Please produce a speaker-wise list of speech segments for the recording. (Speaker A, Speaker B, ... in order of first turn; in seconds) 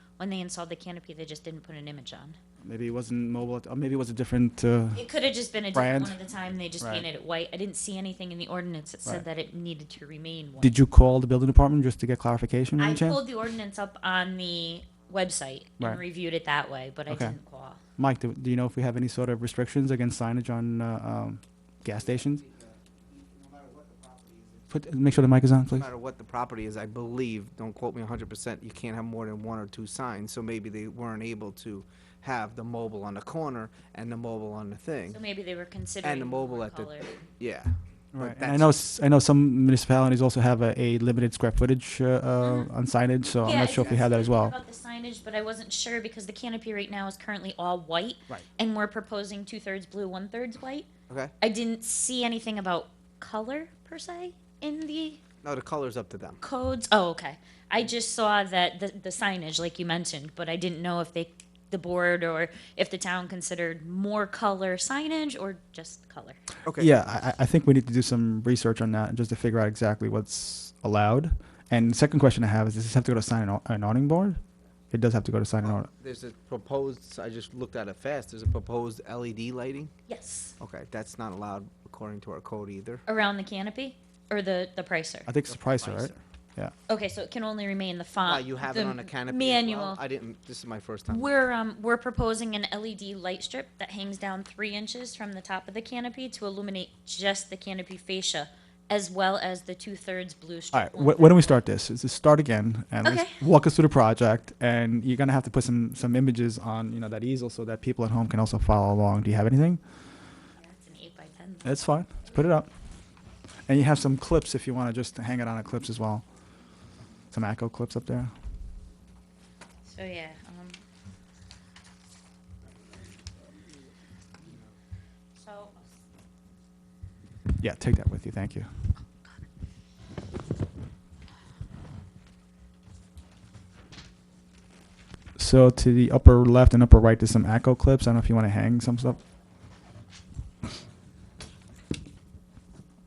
Speaker A: 0.2-2.4, 4.9-10.7, 12.8-17.8, 35.1-37.3, 42.4-42.7, 43.4-50.9, 51.4-55.2, 56.4-66.4, 80.1-80.5, 83.0-85.3, 86.9-90.0, 91.1-101.6, 103.0-103.4, 110.6-112.3, 119.8-120.8, 125.3-126.0
Speaker B: 2.6-5.1, 5.7-6.2, 6.8-7.0, 10.6-13.2, 17.1-17.4, 17.9-22.4, 24.7-25.9, 38.1-44.5, 66.8-74.4, 74.9-75.9, 85.2-86.7, 100.7-109.8, 111.6-112.7, 113.7-116.2, 117.3-118.3, 127.6-128.7, 135.4-139.2
Speaker C: 22.1-24.7, 25.7-35.2, 36.0-38.7, 55.4-56.4, 66.6-66.9, 75.6-79.9, 80.6-83.0, 85.5-86.2, 88.2-91.3